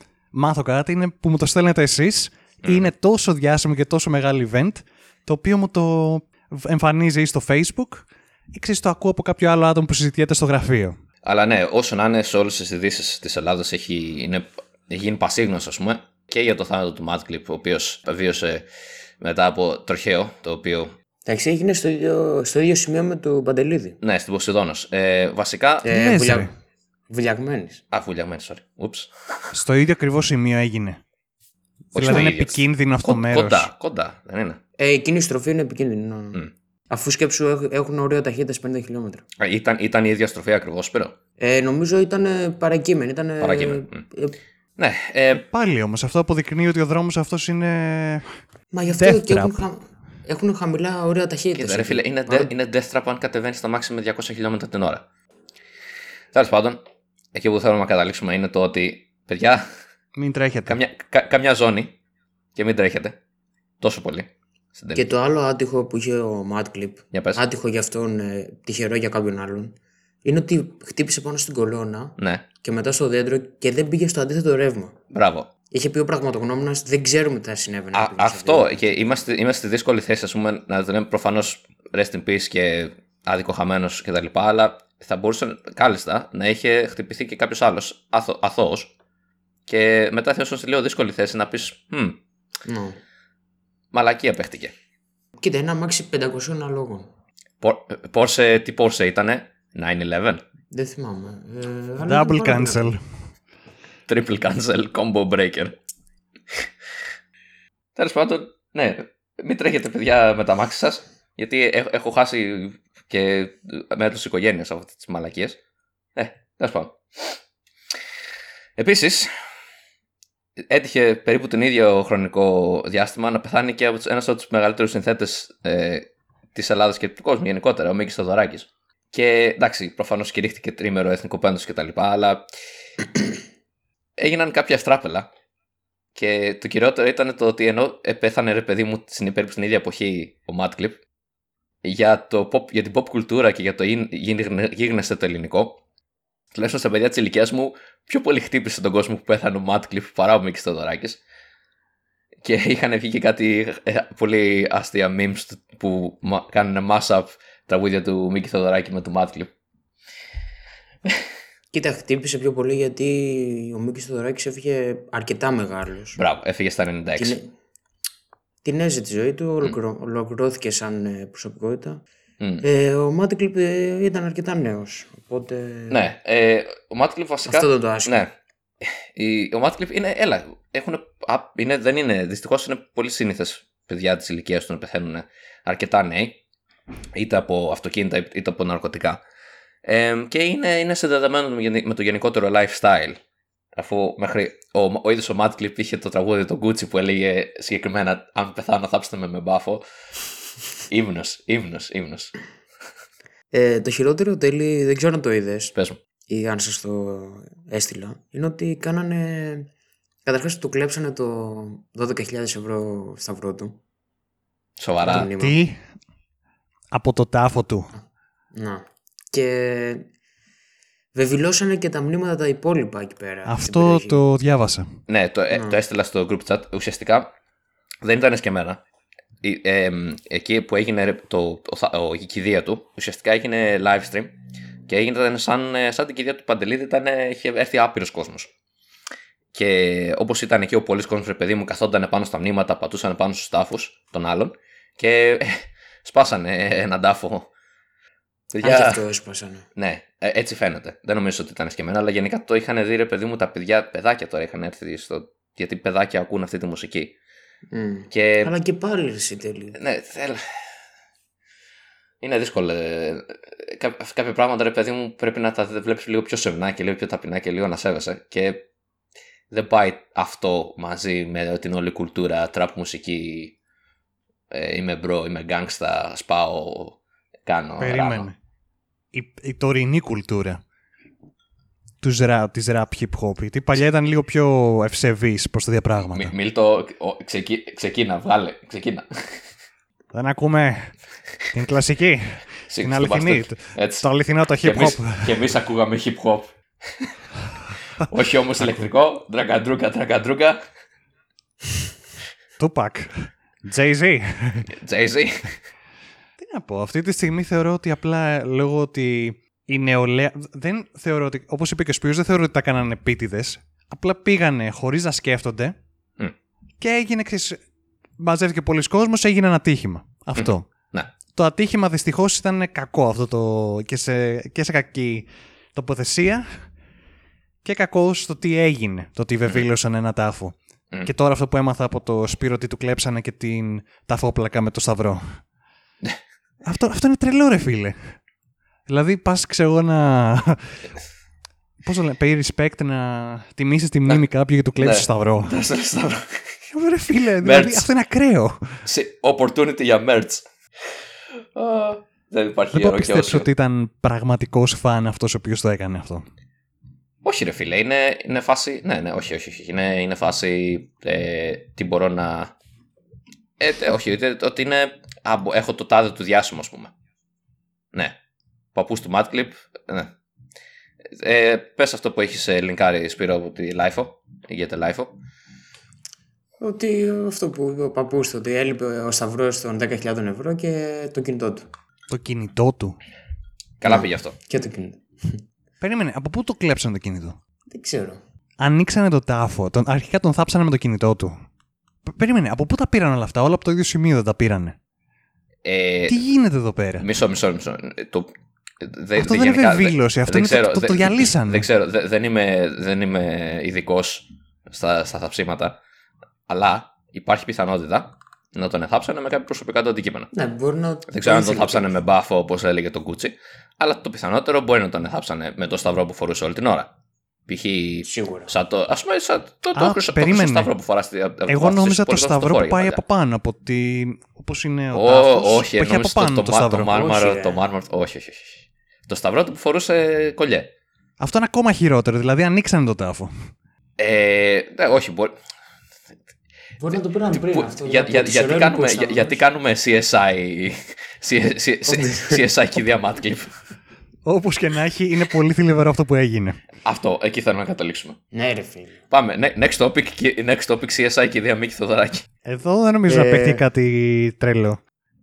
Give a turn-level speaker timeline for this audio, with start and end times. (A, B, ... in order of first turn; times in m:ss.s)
0:00.3-0:11.0 A
0:02.6-0:02.9 B
0:11.2-0:18.6 B
0:19.2-0:20.9 B
0:21.3-0:24.0 C
0:24.0-0:25.9 B
0:25.8-0:26.5 C
0:25.9-0:26.5 A
0:27.1-0:27.8 C
0:27.9-0:29.6 B
0:29.5-0:31.0 A
0:31.9-0:34.6 B
0:32.0-0:33.7 A
0:34.8-0:39.2 C
0:39.4-0:41.2 B
0:41.4-0:44.4 C
0:43.4-0:44.0 B
0:44.8-0:45.4 B
0:45.3-0:48.3 A
0:48.7-0:52.5 C
0:49.0-0:49.6 A
0:51.6-0:55.0 B
0:56.3-0:56.8 B
0:57.3-0:59.7 B
1:00.2-1:00.8 A
1:00.7-1:02.0 B
1:02.6-1:03.2 B
1:03.8-1:05.1 B
1:05.0-1:15.0 C
1:07.1-1:07.4 B
1:12.2-1:12.4 B
1:15.1-1:15.5 B
1:15.7-1:18.8 C
1:17.9-1:28.9 B
1:29.7-1:32.2 B
1:32.7-1:33.0 C
1:33.9-1:34.7 B
1:35.4-1:37.1 C
1:37.6-1:40.4 B
1:40.7-1:42.9 C
1:42.0-1:43.0 A
1:44.1-1:45.7 B
1:48.0-1:55.6 B
1:56.2-1:57.4 B
1:58.8-1:59.3 B
2:00.6-2:12.5 B
2:14.2-2:15.3 B
2:16.2-2:21.0 B
2:21.8-2:25.8 B
2:26.5-2:31.2 B
2:32.4-2:39.5 B
2:41.7-2:46.2 C
2:46.2-2:47.4 B
2:47.2-2:47.5 C
2:48.6-2:52.0 C
2:52.6-2:56.1 C
2:55.9-2:58.3 B
2:57.5-2:58.2 C
2:58.8-3:06.4 B
3:07.2-3:09.2 B
3:09.8-3:13.2 B
3:13.8-3:19.8 B
3:20.9-3:22.4 B
3:23.5-3:25.7 C
3:26.3-3:29.7 C
3:30.2-3:33.8 C
3:34.8-3:35.3 B
3:35.0-3:35.6 C
3:35.1-3:35.8 A
3:36.9-3:37.9 A
3:38.5-3:40.1 C
3:41.1-3:44.2 C
3:43.5-3:45.0 A
3:45.1-3:47.3 B
3:48.0-3:48.8 B
3:49.4-3:54.4 B
3:54.9-3:58.5 B
3:59.5-4:07.5 B
4:08.5-4:09.0 B
4:08.6-4:09.7 C
4:09.8-4:17.1 B
4:17.7-4:19.8 C
4:18.1-4:18.5 B
4:19.8-4:20.5 B
4:22.2-4:28.6 B
4:29.5-4:33.6 B
4:34.5-4:38.3 B
4:37.8-4:38.4 A
4:39.1-4:40.6 A
4:42.0-4:46.3 A
4:46.1-4:49.4 B
4:50.1-4:51.0 A
4:51.5-4:55.4 A
4:52.7-4:54.1 B
4:54.6-4:57.1 B
4:58.0-5:00.6 B
5:02.6-5:04.7 A
5:04.8-5:05.6 B
5:06.4-5:15.8 A
5:16.8-5:17.6 A
5:18.2-5:20.7 A
5:20.4-5:21.1 B
5:21.3-5:26.6 A
5:27.6-5:35.4 A
5:36.6-5:38.1 A
5:38.9-5:40.9 A
5:41.8-5:45.6 A
5:44.8-5:46.6 B
5:46.7-5:48.8 A
5:47.4-5:47.9 B
5:48.9-5:50.5 B
5:51.6-5:53.5 B
5:52.7-5:56.2 A
5:57.2-6:02.5 B
6:03.6-6:06.9 B
6:08.8-6:10.1 B
6:11.1-6:15.1 B
6:16.6-6:21.7 C
6:22.1-6:23.0 A
6:23.8-6:24.4 B
6:23.9-6:25.4 C
6:25.8-6:27.4 A
6:27.7-6:28.2 C
6:28.6-6:31.3 A
6:32.1-6:34.8 A
6:35.6-6:36.2 B
6:36.1-6:37.1 A
6:37.0-6:38.3 B
6:38.8-6:45.8 B
6:39.2-6:41.7 A
6:46.5-6:50.3 B
6:50.3-6:51.9 C
6:51.1-6:56.9 B
6:57.5-7:03.0 B
6:58.1-6:58.5 C
6:59.8-7:00.7 A
7:01.5-7:07.1 A
7:04.9-7:10.7 B
7:06.9-7:07.6 C
7:11.2-7:13.5 A
7:14.0-7:15.4 B
7:16.8-7:19.4 C
7:17.3-7:23.6 B
7:21.9-7:22.4 C
7:24.2-7:26.6 A
7:26.8-7:28.2 B
7:28.3-7:29.0 C
7:29.1-7:32.2 B
7:32.5-7:34.8 A
7:33.1-7:33.6 C